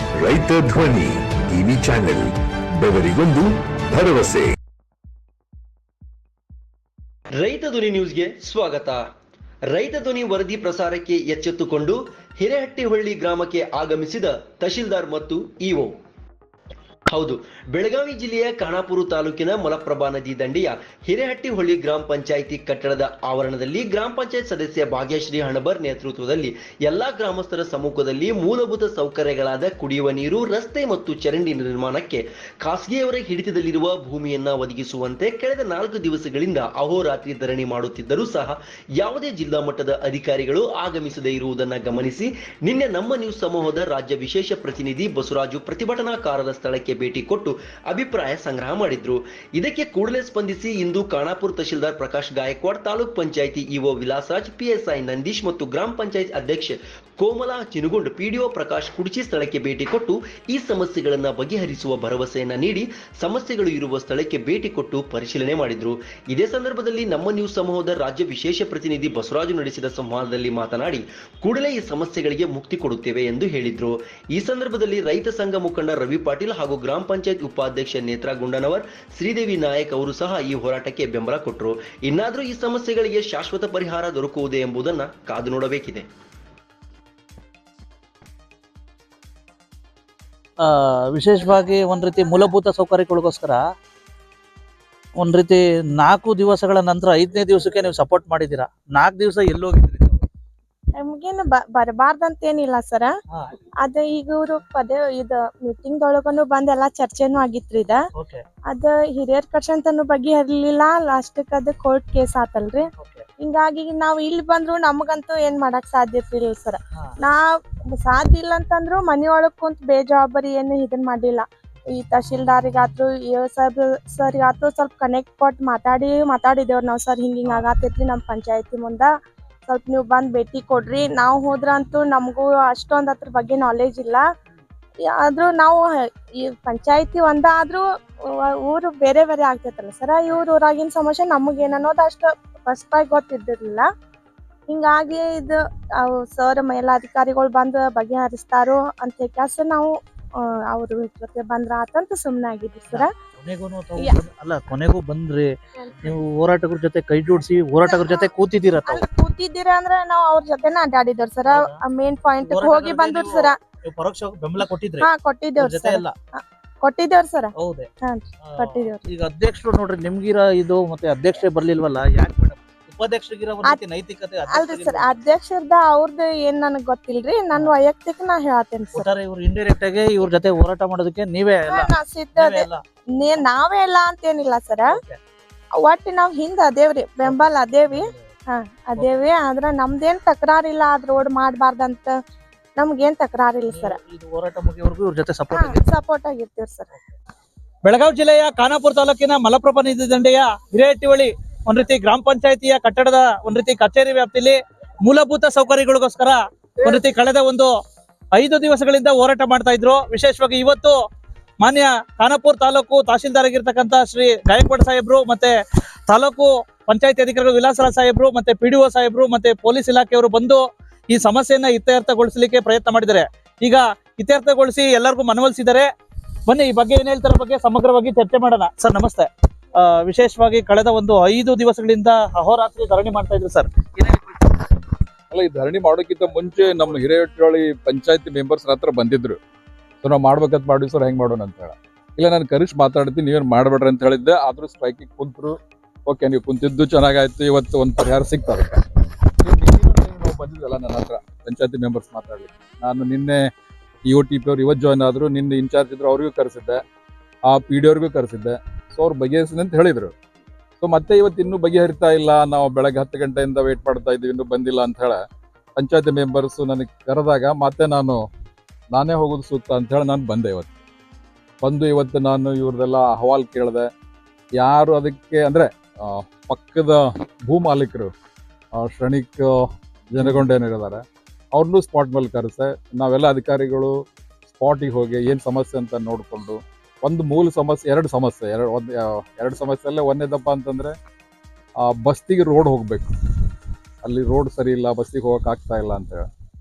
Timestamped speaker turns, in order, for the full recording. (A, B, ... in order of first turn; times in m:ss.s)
0:00.3-0:02.3 A
0:02.8-0:03.5 A
0:04.0-0:04.4 A
0:07.4-0:09.0 B
0:09.7-0:16.0 B
0:17.1-1:26.1 B
1:30.6-1:33.6 C
1:35.2-1:40.2 C
1:41.0-1:43.1 D
1:43.8-1:48.0 D
1:48.2-1:48.4 C
1:48.7-1:52.9 D
1:53.0-1:53.2 C
1:53.4-2:09.1 D
2:09.7-2:14.3 D
2:15.2-2:23.9 D
2:24.7-2:33.1 D
2:32.9-2:39.0 C
2:37.9-2:38.3 D
2:38.9-2:43.6 D
2:41.5-2:41.8 C
2:42.4-2:46.1 C
2:45.0-2:49.0 D
2:47.6-2:47.9 C
2:48.5-2:55.1 C
2:54.5-2:59.1 D
2:58.9-3:02.8 C
3:01.7-3:02.7 D
3:03.2-3:04.9 D
3:04.9-3:05.2 C
3:05.8-3:12.1 D
3:07.2-3:08.3 C
3:12.8-3:14.0 D
3:13.7-3:15.8 C
3:15.5-3:16.9 D
3:17.8-3:27.7 C
3:28.3-3:31.0 C
3:31.6-3:35.6 C
3:36.1-3:45.9 C
3:46.5-3:54.7 C
3:55.3-3:59.4 E
4:00.0-4:05.6 E
4:06.1-4:08.8 E
4:09.4-4:13.5 E
4:14.1-4:16.8 E
4:17.5-4:20.1 E
4:20.8-4:25.2 E
4:25.8-4:28.2 E
4:28.9-4:30.7 E
4:31.6-4:33.9 E
4:34.6-4:38.1 E
4:38.8-4:50.9 E
4:51.8-4:53.1 E
4:54.0-4:56.3 E